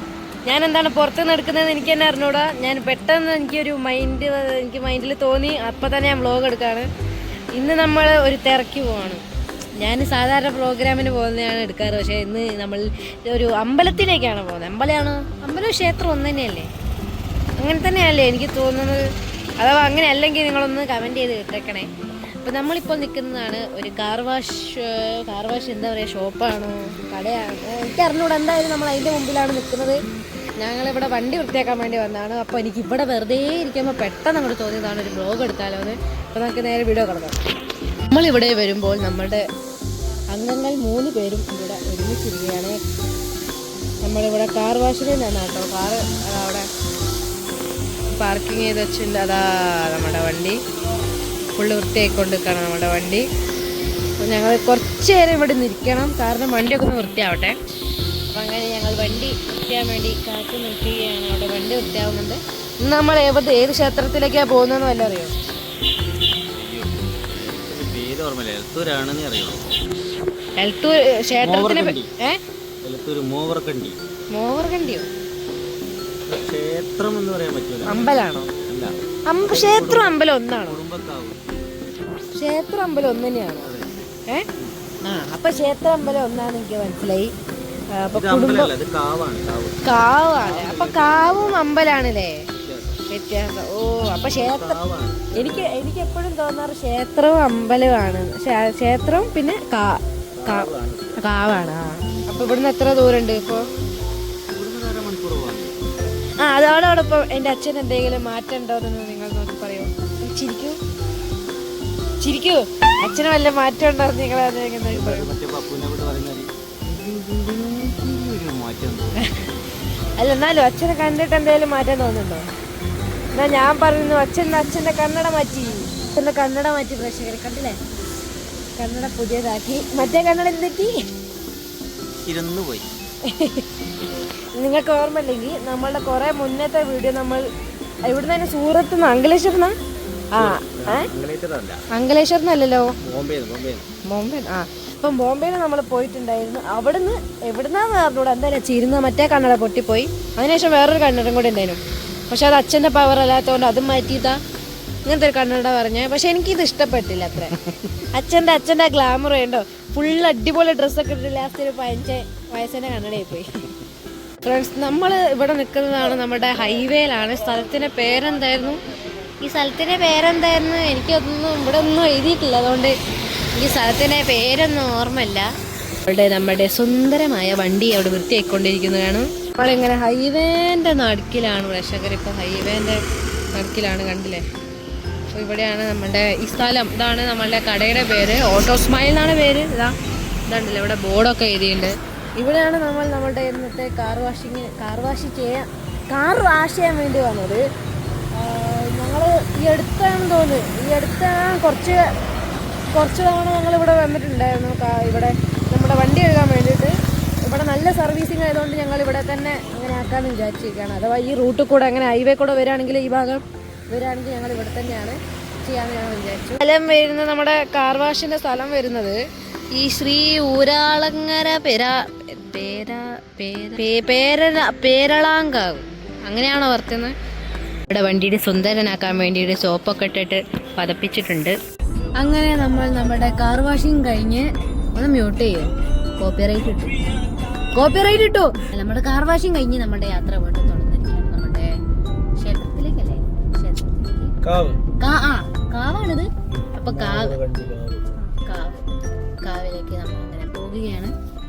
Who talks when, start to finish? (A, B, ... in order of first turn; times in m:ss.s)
0:00.4-0:06.9 A
0:07.5-0:09.2 A
0:09.8-0:16.7 A
0:17.6-0:19.1 A
0:19.6-0:30.0 A
0:30.6-0:37.4 A
0:38.0-0:39.5 A
0:40.3-0:42.8 A
0:44.0-0:46.7 A
0:48.1-0:50.6 A
0:51.5-0:53.2 A
0:54.2-0:57.6 A
0:58.3-1:05.3 A
1:06.5-1:09.8 B
1:10.6-1:12.4 A
1:11.4-1:12.1 B
1:12.8-1:14.0 B
1:14.3-1:15.1 A
1:16.3-1:18.1 B
1:17.8-1:18.5 A
1:18.7-1:21.4 B
1:19.2-1:20.8 A
1:22.3-1:23.7 A
1:23.6-1:24.0 B
1:25.0-1:27.3 A
1:27.9-1:28.7 A
1:28.1-1:29.8 B
1:29.8-1:32.5 A
1:30.3-1:31.8 B
1:32.6-1:33.0 B
1:33.1-1:34.8 A
1:34.3-1:35.8 B
1:35.3-1:43.7 A
1:40.3-1:41.2 B
1:44.5-1:45.8 B
1:46.4-1:50.8 A
1:52.2-1:55.3 A
1:54.9-1:59.2 B
1:59.2-1:59.5 A
2:00.2-2:02.5 A
2:03.3-2:07.8 A
2:08.8-2:11.0 A
2:12.2-2:12.9 B
2:13.2-2:13.7 A
2:14.5-2:17.5 A
2:18.0-2:19.8 A
2:20.3-2:21.1 A
2:20.4-2:21.8 B
2:21.9-2:22.9 A
2:23.0-2:23.9 B
2:24.0-2:34.4 A
2:35.0-2:43.6 A
2:44.4-2:48.8 A
2:49.4-2:53.0 A
2:53.5-2:55.5 A
2:56.0-3:03.0 A
3:03.5-3:04.4 A
3:05.3-3:10.0 A
3:10.5-3:17.6 A
3:18.3-3:22.1 A
3:22.9-3:39.2 A
3:39.7-3:47.2 A
3:47.9-3:51.6 A
3:52.2-3:57.0 A
3:57.7-4:01.7 A
4:02.4-4:04.4 A
4:04.4-4:04.8 B
4:05.0-4:07.4 A
4:06.7-4:08.1 B
4:08.2-4:08.9 A
4:09.4-4:11.1 A